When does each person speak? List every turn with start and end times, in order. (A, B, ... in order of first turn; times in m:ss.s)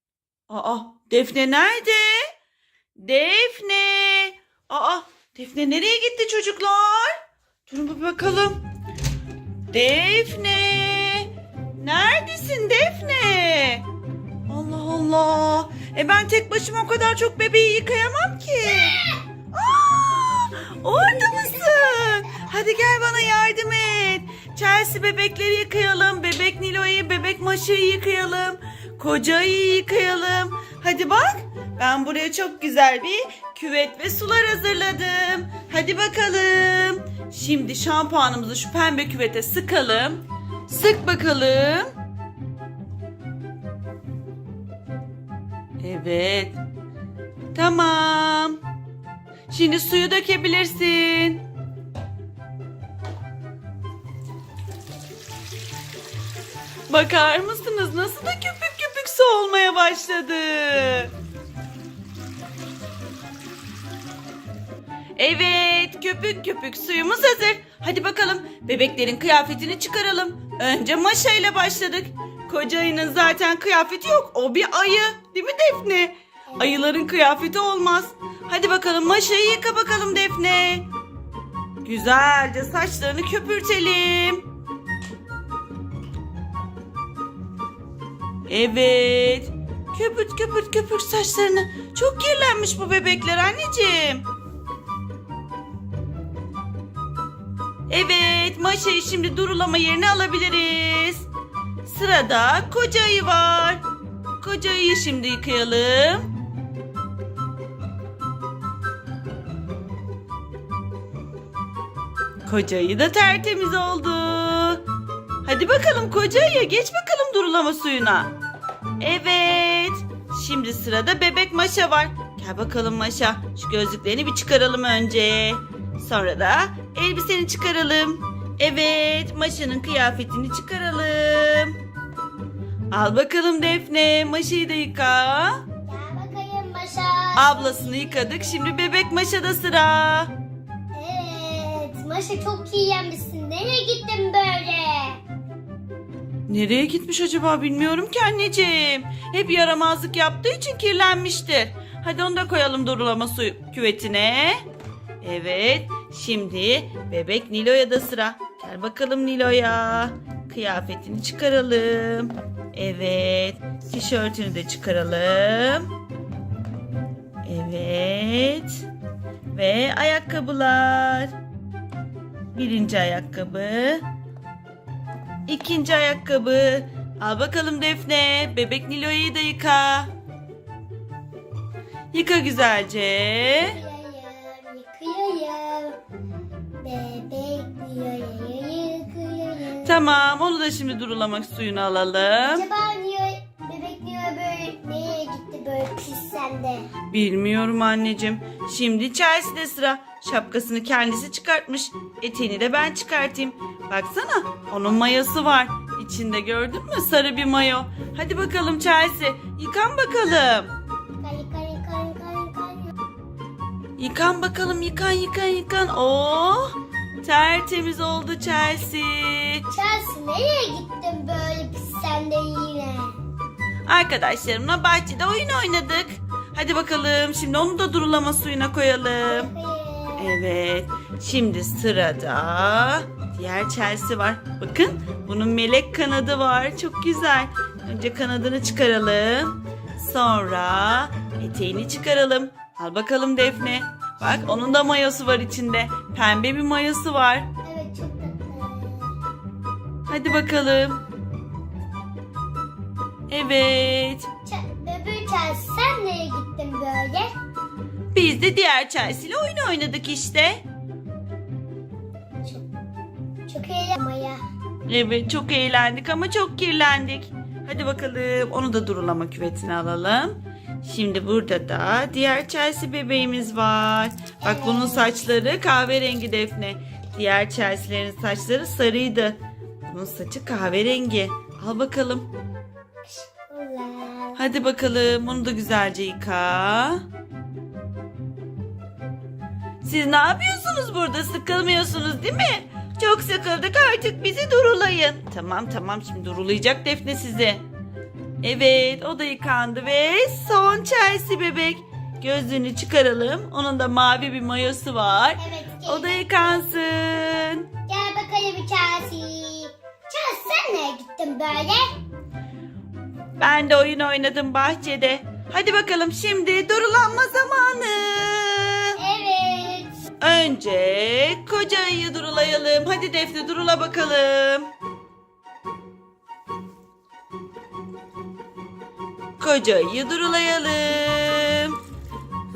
0:00.5-0:02.3 A
0:03.0-0:08.6 A
0:09.7-0:13.8 A
0:14.5-0:19.0 A
0:18.6-0:19.2 B
0:19.5-0:41.9 A
0:21.0-0:22.5 B
0:45.8-0:46.6 A
0:47.5-0:48.6 A
0:49.5-0:51.4 A
0:56.9-1:01.1 A
1:05.2-1:20.9 A
1:16.5-1:16.8 B
1:21.8-1:24.4 A
1:28.5-1:34.2 A
1:37.9-1:41.3 A
1:41.8-1:43.8 A
1:44.4-1:46.3 A
1:52.4-1:54.8 A
1:55.4-1:58.3 A
1:59.0-2:11.8 A
2:12.9-2:15.6 A
2:15.8-2:18.6 B
2:17.4-2:20.3 A
2:20.9-2:25.2 B
2:26.5-2:34.6 A
2:35.2-2:45.9 A
2:47.4-2:48.8 A
2:49.5-2:51.3 A
2:52.5-2:54.0 A
2:55.5-3:00.1 A
3:02.1-3:03.8 A
3:03.6-3:06.0 B
3:06.8-3:10.0 B
3:09.8-3:12.6 A
3:12.4-3:16.9 B
3:17.1-3:30.7 A
3:31.2-3:32.9 B
3:34.0-3:39.7 A
3:39.7-3:43.2 B
3:43.9-3:49.5 A
3:49.2-3:50.3 B
3:50.2-4:07.5 A
4:07.6-4:09.1 B
4:10.1-4:11.0 A
4:13.3-4:14.3 A
4:14.4-4:17.3 B
4:18.1-4:20.6 A
4:23.5-4:24.4 B
4:24.9-4:42.3 A
4:34.4-4:35.1 B
4:43.0-4:44.4 B
4:44.4-4:47.0 A
4:49.8-4:57.6 A
4:58.4-5:07.7 A
5:05.4-5:06.2 B
5:07.9-5:11.9 B
5:13.4-5:19.0 A
5:19.0-5:20.0 B
5:20.2-5:24.7 A
5:29.4-5:31.8 A